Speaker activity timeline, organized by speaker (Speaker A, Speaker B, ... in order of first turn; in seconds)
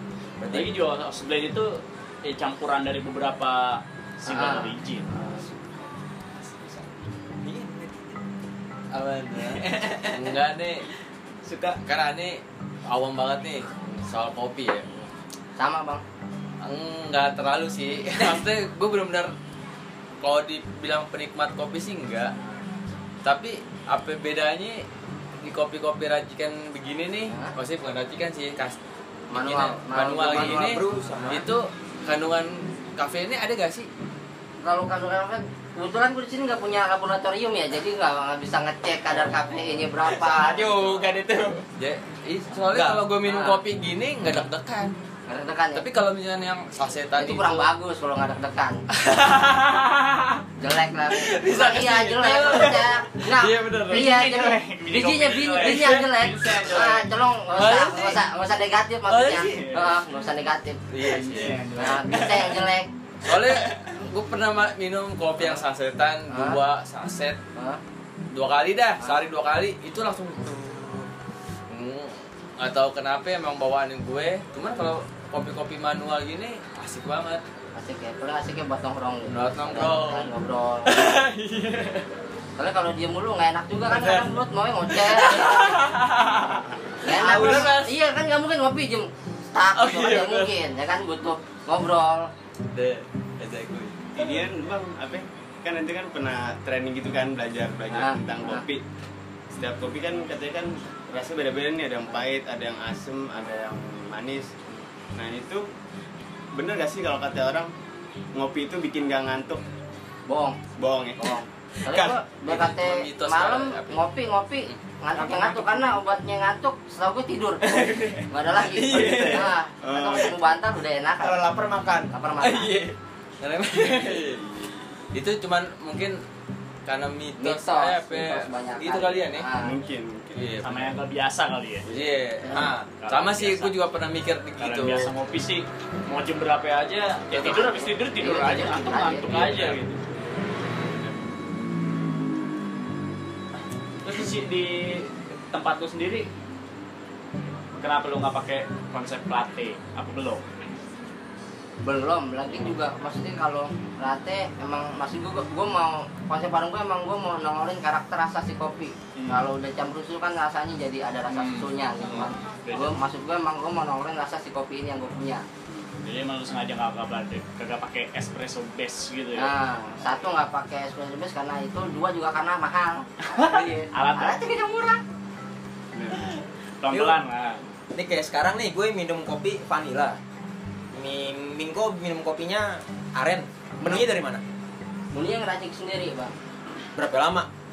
Speaker A: 0.4-0.8, 6.4-8.1, 9.4-10.3, 11.4-11.8, 30.3-31.4, 40.0-41.6, 42.7-43.0, 87.2-87.7, 117.6-119.5, 121.2-122.9, 132.5-132.9, 176.9-177.2, 177.9-180.2, 180.9-184.4, 187.0-187.5
Speaker B: 0.5-5.1, 53.9-57.1, 59.4-60.0, 61.0-62.5, 130.6-131.9, 133.0-133.8, 134.6-140.0, 144.0-146.3, 147.8-150.4, 159.2-159.5, 161.3-161.7, 162.7-163.0, 166.0-169.5, 173.3-174.4, 176.8-177.6
Speaker C: 4.3-5.5, 15.6-16.0, 29.3-31.4, 34.6-40.8, 43.2-43.6, 45.3-45.8, 47.2-48.8, 50.6-61.2, 61.8-62.9, 66.3-66.6, 77.8-81.1, 82.6-85.8, 87.0-92.3, 97.9-98.6, 110.3-110.6, 111.2-121.5, 122.1-122.8, 127.4-129.8, 137.3-139.5, 151.8-165.4, 169.3-175.0, 185.1-186.3
Speaker D: 8.9-10.8, 11.8-14.9, 16.6-19.3, 20.2-22.3, 23.2-24.8, 25.4-28.8, 29.3-33.9, 41.8-44.9, 45.8-47.7, 49.0-50.4, 51.1-54.1, 57.5-58.2, 59.1-59.7, 60.9-61.6, 63.2-67.4, 68.3-71.1, 71.7-77.4, 79.3-80.3, 80.8-82.1, 83.9-84.4, 84.9-87.9, 89.8-90.5, 92.7-94.1, 112.5-114.0, 123.4-124.4, 125.1-126.2, 126.9-129.5, 130.3-131.0, 131.9-135.1, 139.1-139.8
Speaker E: 94.2-98.8, 99.5-104.5, 105.2-105.7, 106.5-107.7, 108.3-109.6, 110.8-111.4, 118.9-120.4, 123.9-124.8, 129.6-130.5, 175.9-176.2